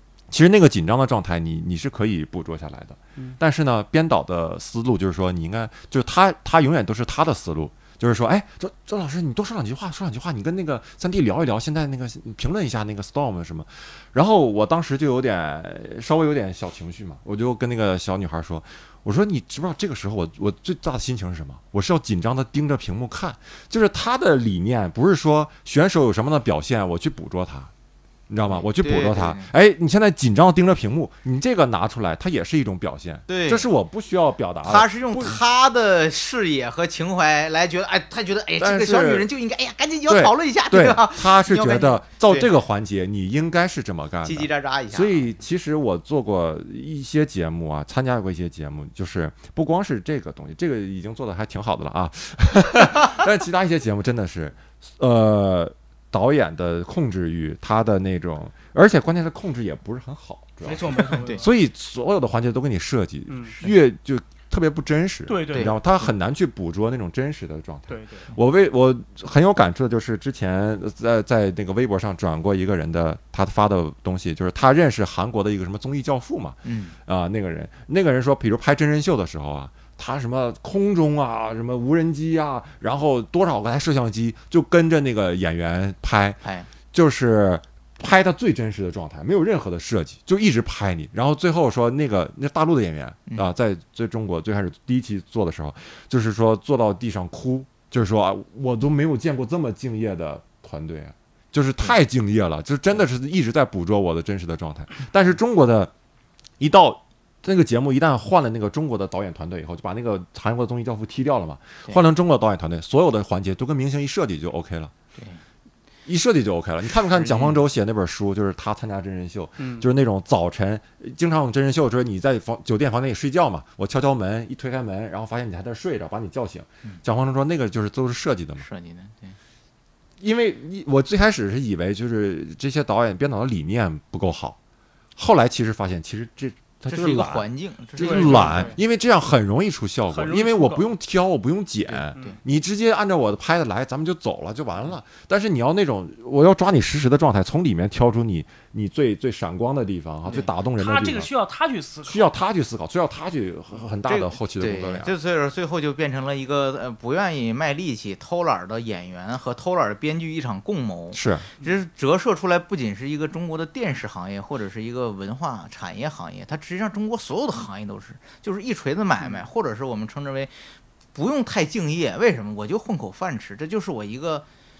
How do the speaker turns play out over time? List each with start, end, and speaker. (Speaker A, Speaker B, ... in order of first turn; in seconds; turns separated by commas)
Speaker A: 0.3-27.7, Speaker A: 28.3-35.4, Speaker B: 28.5-29.5, Speaker B: 33.3-33.7, Speaker B: 34.6-42.6, Speaker A: 38.6-39.3, Speaker A: 40.1-105.9, Speaker B: 44.2-45.3, Speaker C: 60.6-61.5, Speaker B: 61.0-61.4, Speaker C: 63.3-63.6, Speaker C: 65.3-65.8, Speaker B: 65.5-66.1, Speaker C: 67.9-68.3, Speaker B: 76.6-77.0, Speaker B: 86.4-86.7, Speaker A: 106.6-114.9, Speaker B: 115.2-115.4, Speaker A: 116.0-128.7, Speaker B: 117.2-117.6, Speaker C: 119.6-119.9, Speaker B: 128.6-129.4, Speaker A: 130.2-134.6, Speaker A: 135.2-151.3, Speaker B: 136.9-138.8, Speaker C: 138.0-138.7, Speaker C: 140.1-140.9, Speaker B: 141.9-142.4, Speaker C: 150.3-152.3, Speaker A: 152.1-155.1, Speaker B: 154.1-170.5, Speaker A: 161.1-161.5, Speaker B: 171.1-174.4